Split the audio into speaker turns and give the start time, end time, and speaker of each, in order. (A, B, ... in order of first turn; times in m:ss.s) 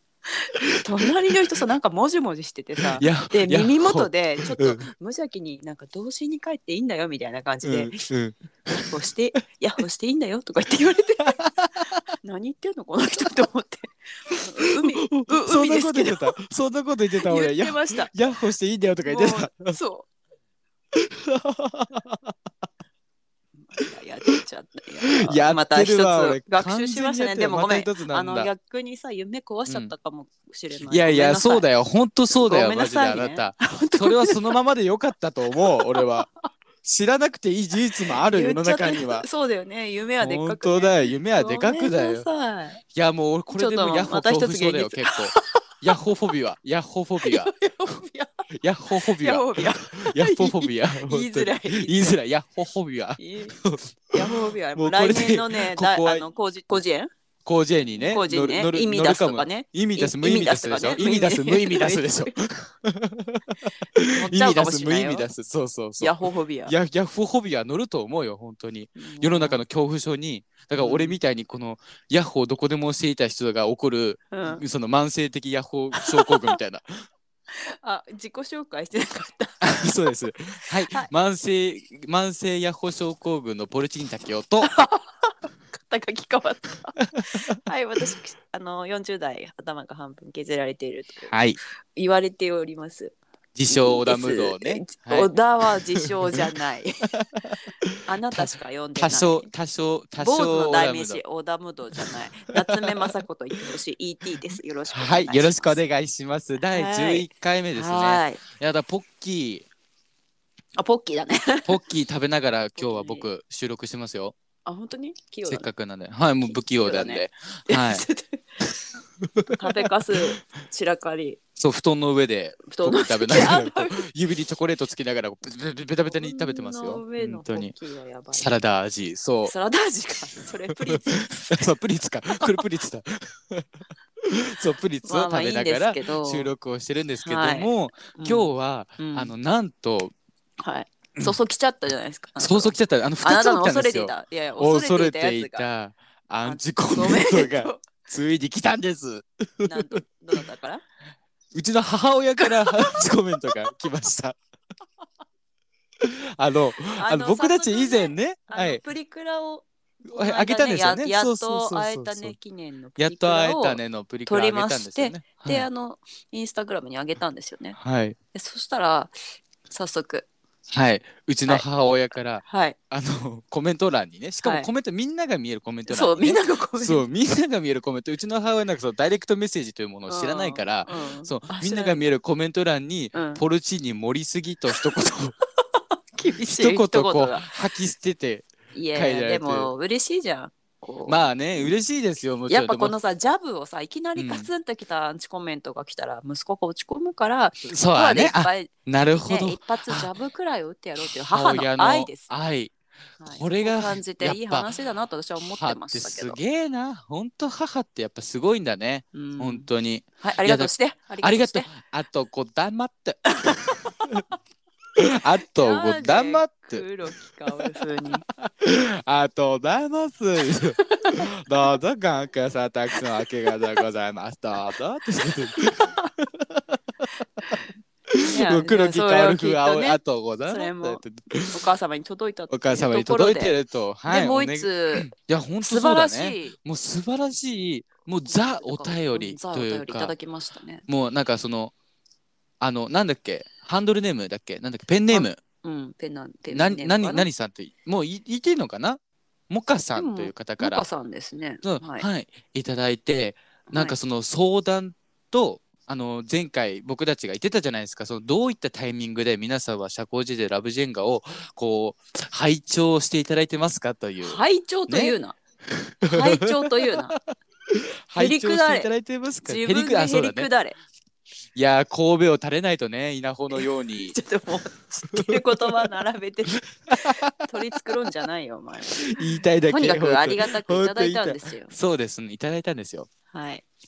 0:00.4-0:08.0 A
0:03.0-0:04.8 B
0:07.6-0:08.9 B
0:08.7-0:11.4 A
0:11.2-0:11.9 B
0:12.2-0:16.4 A
0:14.7-0:19.8 B
0:17.2-0:18.1 A
0:19.0-0:20.1 A
0:20.9-0:22.3 B
0:23.7-0:31.7 A
0:25.1-0:28.5 B
0:29.7-0:29.9 B
0:30.8-0:36.3 B
0:32.4-0:34.5 A
0:35.5-0:36.2 A
0:36.8-0:39.2 B
0:38.2-0:42.8 A
0:40.2-0:42.3 B
0:42.9-0:47.5 B
0:43.5-0:45.6 A
0:47.2-0:48.4 A
0:48.5-0:53.9 B
0:49.0-0:52.2 A
0:53.2-0:57.1 A
0:54.8-0:56.2 B
0:57.4-1:06.2 B
0:57.9-1:02.4 A
1:04.1-1:05.3 A
1:06.0-1:06.7 A
1:06.7-1:16.9 B
1:09.0-1:09.6 A
1:10.8-1:11.2 A
1:14.3-1:14.6 A
1:16.0-1:16.6 A
1:17.8-1:20.0 A
1:19.6-1:24.7 B
1:24.6-1:31.3 A
1:27.1-1:27.5 B
1:31.3-1:31.6 B
1:31.9-1:33.1 A
1:33.5-1:35.3 B
1:33.7-1:37.1 A
1:36.0-1:36.4 B
1:37.1-1:38.4 B
1:38.0-1:39.5 A
1:39.0-1:41.2 B
1:40.2-1:45.8 A
1:44.9-1:49.6 B
1:46.7-1:48.4 A
1:50.8-1:51.8 A
1:51.6-1:54.3 B
1:52.8-1:53.3 A
1:54.6-1:55.7 A
1:55.4-1:58.0 B
1:56.5-1:58.4 A
1:59.4-1:59.8 B
1:59.5-2:01.4 A
2:01.6-2:07.7 B
2:02.7-2:04.0 A
2:06.1-2:08.5 A
2:08.3-2:09.5 B
2:09.4-2:11.6 A
2:10.9-2:13.7 B
2:14.2-2:20.1 B
2:15.0-2:16.5 A
2:17.2-2:19.3 A
2:20.6-2:25.6 A
2:22.4-2:29.8 B
2:26.4-2:27.9 A
2:29.6-2:30.8 A
2:31.5-2:34.4 B
2:32.4-2:33.0 A
2:36.0-2:38.8 B
2:37.0-2:47.8 A
2:40.1-2:42.3 B
2:43.0-2:45.7 B
2:47.8-2:48.2 B
2:48.3-2:49.1 A
2:49.7-2:50.2 A
2:50.7-3:05.4 B
2:52.4-2:52.8 A
2:54.4-2:54.7 A
2:55.9-2:57.0 A
3:00.1-3:02.0 A
3:03.1-3:03.4 A
3:06.1-3:07.6 A
3:06.4-3:09.7 B
3:08.7-3:11.7 A
3:11.1-3:12.9 B
3:12.5-3:22.3 A
3:14.2-3:14.5 B
3:17.7-3:20.1 B
3:21.3-3:22.7 B
3:23.2-3:26.4 A
3:23.2-3:24.7 B
3:25.5-3:33.4 B
3:29.1-3:29.7 A
3:30.2-3:31.7 A
3:33.4-3:34.0 A
3:35.0-3:36.8 B
3:35.6-3:38.2 A
3:38.4-3:46.7 B
3:40.8-3:41.2 A
3:45.5-3:46.1 A
3:48.1-3:51.6 B
3:48.2-3:55.1 A
3:52.5-4:00.1 B
3:55.6-3:56.5 A
3:58.2-4:00.8 A
4:00.9-4:01.7 B
4:02.6-4:05.4 B
4:05.1-4:07.3 A
4:06.5-4:09.0 B
4:09.5-4:10.8 B
4:09.9-4:12.1 A
4:11.6-4:25.1 B
4:13.7-4:14.0 A
4:24.2-4:25.4 A
4:25.7-4:30.5 B
4:26.0-4:27.2 A
4:28.2-4:28.9 A
4:29.4-4:30.8 A
4:31.5-4:34.2 B
4:33.5-4:41.7 A
4:35.1-4:35.9 B
4:36.5-4:38.0 B
4:39.0-4:43.1 B
4:43.3-4:43.6 A